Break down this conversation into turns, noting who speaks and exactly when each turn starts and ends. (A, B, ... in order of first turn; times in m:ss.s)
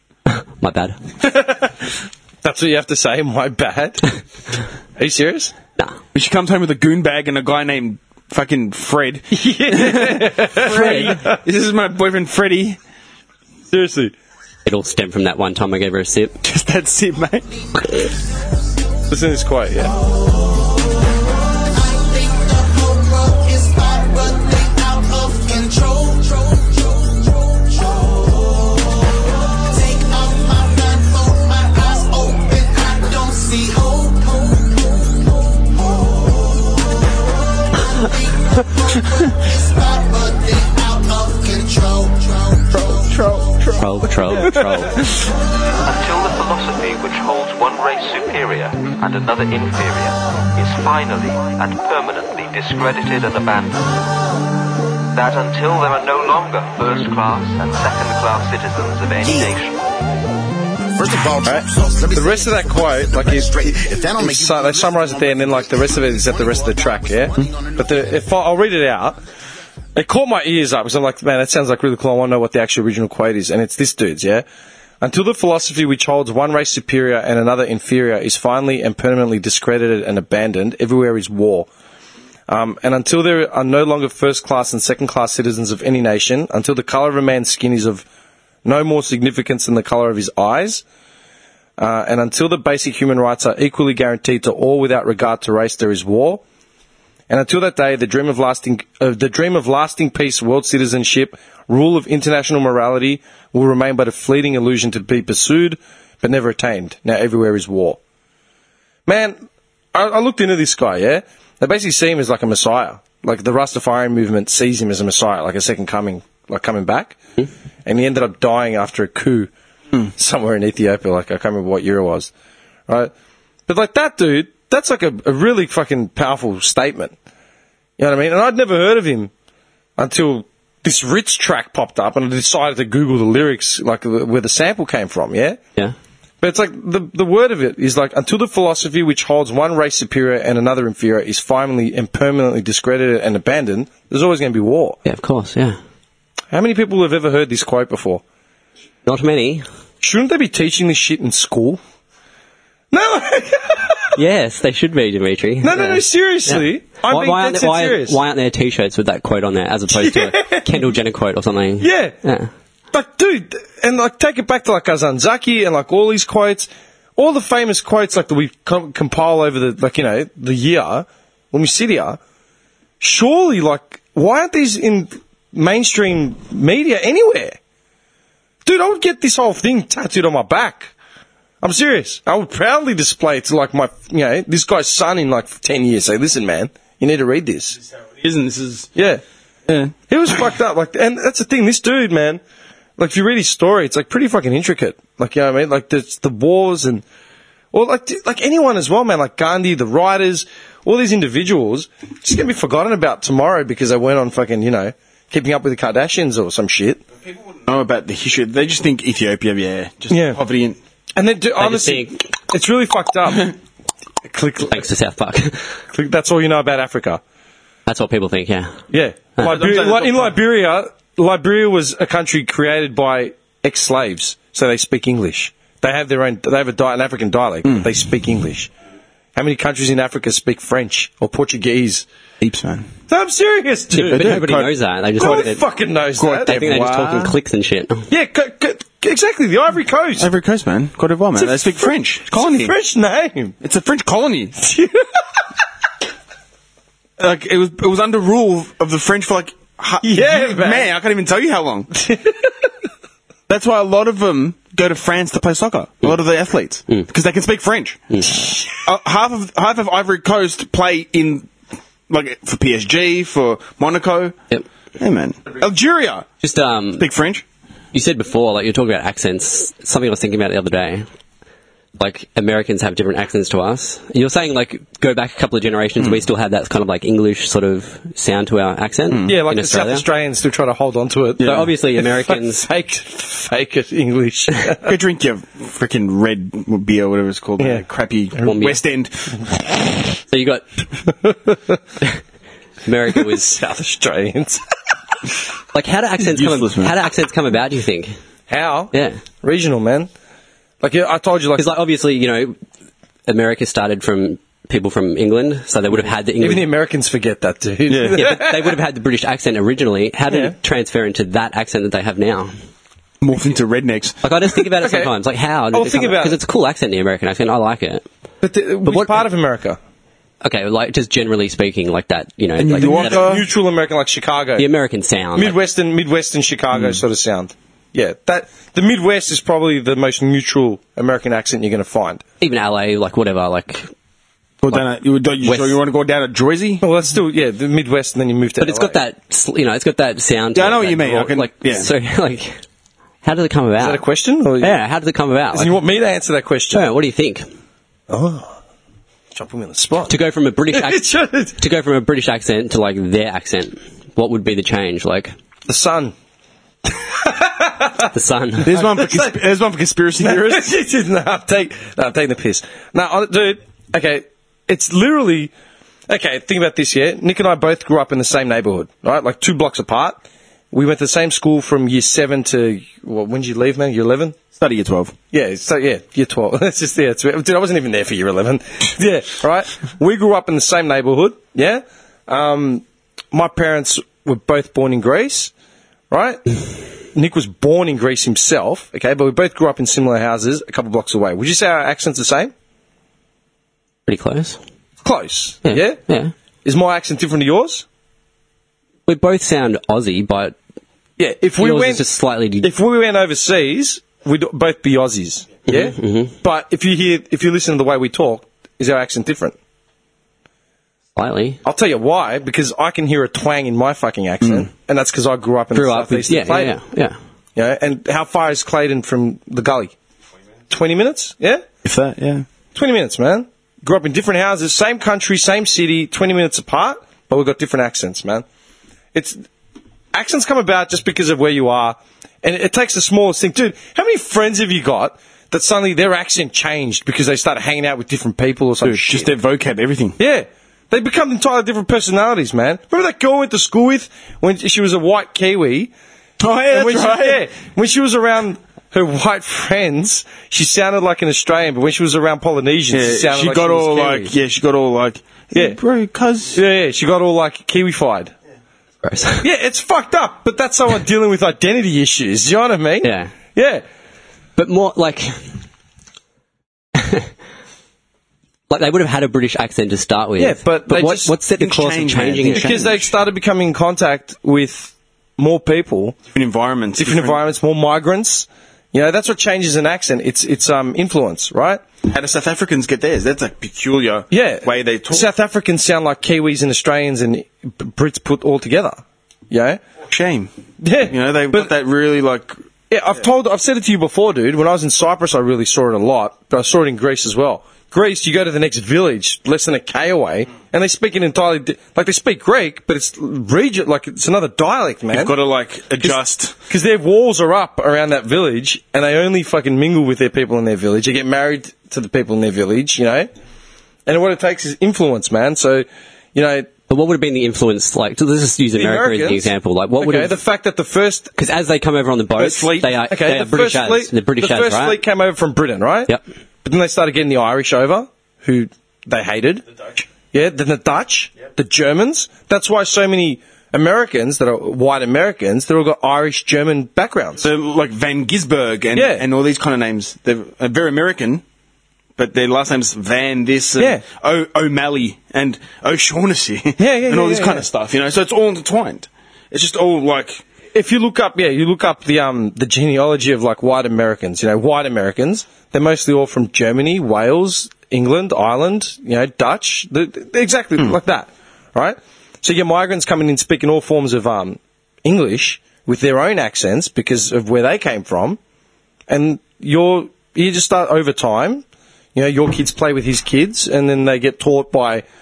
0:00.3-0:01.0 A
0:01.2-0:01.7 B
0:02.4-0:04.1 B
0:05.0-0:05.5 B
0:06.1-0:12.8 C
0:09.3-0:11.4 B
0:10.6-0:11.2 A
0:13.7-0:14.1 B
0:14.6-0:16.3 A
0:16.4-0:17.5 C
0:19.1-0:19.9 B
0:21.6-0:35.0 D
0:37.8-0:43.7 D
0:42.7-0:45.1 C
0:43.8-0:45.0 A
0:45.8-0:54.0 E
0:55.1-0:59.8 E
0:59.2-0:59.6 D
1:01.0-1:08.0 D
1:01.4-1:09.2 B
1:09.9-1:14.4 B
1:15.0-1:21.7 B
1:22.5-1:28.0 B
1:28.6-1:30.8 B
1:31.8-1:36.4 B
1:37.3-1:48.0 B
1:49.1-1:49.4 B
1:49.9-1:57.2 B
1:57.8-1:59.5 B
2:00.1-2:02.3 B
2:03.7-2:07.1 B
2:08.0-2:09.3 B
2:10.0-2:15.6 B
2:16.4-2:25.0 B
2:25.0-2:25.8 A
2:26.5-2:28.2 B
2:29.0-2:29.6 A
2:30.0-2:31.8 B
2:32.9-2:34.0 B
2:34.2-2:42.5 A
2:35.6-2:38.2 B
2:39.9-2:40.8 B
2:41.8-2:42.1 B
2:42.9-2:52.2 B
2:53.0-2:57.6 B
2:58.6-3:00.9 B
3:01.6-3:07.8 B
3:08.2-3:08.9 C
3:09.0-3:09.2 B
3:10.1-3:12.4 B
3:13.0-3:17.0 B
3:17.7-3:27.0 B
3:27.6-3:30.8 C
3:30.1-3:30.4 B
3:31.2-3:33.6 B
3:31.6-3:32.2 A
3:34.3-3:34.8 B
3:34.7-3:35.7 A
3:35.9-3:37.2 B
3:37.9-3:38.7 A
3:38.9-3:48.7 B
3:39.4-3:40.3 C
3:47.6-3:47.9 C
3:49.4-3:52.0 B
3:52.4-3:52.9 C
3:53.1-3:54.4 B
3:53.9-3:55.6 A
3:54.1-3:55.5 C
3:55.2-3:56.8 B
3:56.2-3:57.3 C
3:56.4-3:58.0 A
3:58.1-4:00.3 B
4:00.2-4:02.7 C
4:01.4-4:03.6 B
4:03.6-4:04.6 C
4:04.6-4:05.2 B
4:07.2-4:12.0 C
4:10.0-4:10.9 B
4:12.0-4:12.5 B
4:13.5-4:18.2 C
4:18.8-4:21.5 C
4:22.1-4:24.4 C
4:25.0-4:26.3 C
4:26.4-4:27.0 A
4:27.0-4:27.4 C
4:27.9-4:31.1 A
4:32.0-4:40.0 A
4:39.1-4:39.4 C
4:39.2-4:44.9 B
4:41.4-4:42.6 A
4:44.8-4:49.4 C
4:48.4-4:48.8 A
4:50.3-4:50.6 A
4:52.8-4:53.6 A
4:53.2-4:54.6 B
4:55.7-4:58.1 A
4:56.2-4:56.9 C
4:58.5-5:00.1 B
4:58.9-4:59.2 A
5:00.8-5:01.6 B
5:01.6-5:02.6 A
5:03.3-5:06.6 A
5:06.4-5:08.7 B
5:07.9-5:08.2 C
5:08.1-5:12.5 A
5:13.2-5:14.2 C
5:14.2-5:18.1 A
5:14.8-5:15.1 B
5:15.7-5:16.4 B
5:18.4-5:19.8 B
5:18.8-5:19.2 A
5:20.4-5:23.2 A
5:22.6-5:23.5 C
5:22.8-5:24.7 B
5:24.6-5:25.6 A
5:25.4-5:32.2 B
5:32.4-5:33.9 A
5:34.6-5:36.8 C
5:35.4-5:35.8 A
5:36.8-5:39.0 B
5:38.6-5:42.6 A
5:40.5-5:41.9 C
5:43.2-5:44.0 A
5:43.8-5:44.8 B
5:44.6-5:45.8 A
5:45.5-5:46.9 B
5:46.7-5:47.4 A
5:48.1-5:48.6 B
5:49.3-5:50.1 B
5:50.1-5:51.0 A
5:50.7-5:51.6 B
5:51.6-5:55.3 A
5:55.7-5:56.1 B
5:57.2-5:58.1 B
5:58.1-5:58.8 A
5:58.6-6:00.7 C
5:58.7-5:59.4 B
6:00.2-6:05.5 B
6:06.1-6:10.2 B
6:10.7-6:14.4 B
6:14.6-6:15.1 C
6:15.3-6:25.5 B
6:26.1-6:26.6 B
6:27.1-6:32.5 B
6:34.1-6:34.6 A
6:35.0-6:36.0 B
6:35.6-6:36.3 A
6:36.6-6:37.8 B
6:39.1-6:40.6 A
6:41.2-6:42.0 B
6:41.6-6:42.7 A
6:42.6-6:49.6 B
6:45.7-6:46.3 A
6:51.2-6:51.6 A
6:51.6-6:56.8 B
6:54.4-6:54.7 C
6:55.7-6:57.2 A
6:57.6-6:59.9 B
7:00.7-7:01.6 B
7:01.8-7:02.4 C
7:02.7-7:08.4 B
7:09.1-7:09.4 B
7:10.1-7:19.3 B
7:18.8-7:20.2 C
7:20.2-7:25.9 B
7:26.4-7:27.4 C
7:26.7-7:34.3 B
7:32.9-7:36.6 C
7:36.5-7:38.3 B
7:39.0-7:39.4 A
7:39.4-7:43.8 B
7:43.0-7:43.3 A
7:44.6-7:45.4 A
7:47.0-7:47.3 A
7:48.7-7:52.9 A
7:50.4-7:51.3 B
7:51.6-7:53.0 C
7:52.5-7:56.2 B
7:56.3-7:57.4 C
7:57.0-8:01.8 B
8:02.0-8:05.3 C
8:04.3-8:09.0 B
8:09.5-8:09.8 B
8:10.0-8:10.5 C
8:10.8-8:11.7 B
8:11.1-8:12.6 C
8:12.9-8:25.3 B
8:25.1-8:26.5 C
8:26.0-8:33.3 B
8:34.0-8:36.7 B
8:36.9-8:40.4 A
8:38.7-8:39.5 B
8:40.0-8:41.3 B
8:41.4-8:45.0 A
8:42.4-8:57.4 B
8:57.4-9:01.4 C
8:58.9-8:59.2 B
9:02.2-9:10.4 C
9:03.8-9:04.0 B
9:06.8-9:07.6 B
9:10.7-9:28.4 B
9:29.1-9:31.6 B
9:32.1-9:35.0 B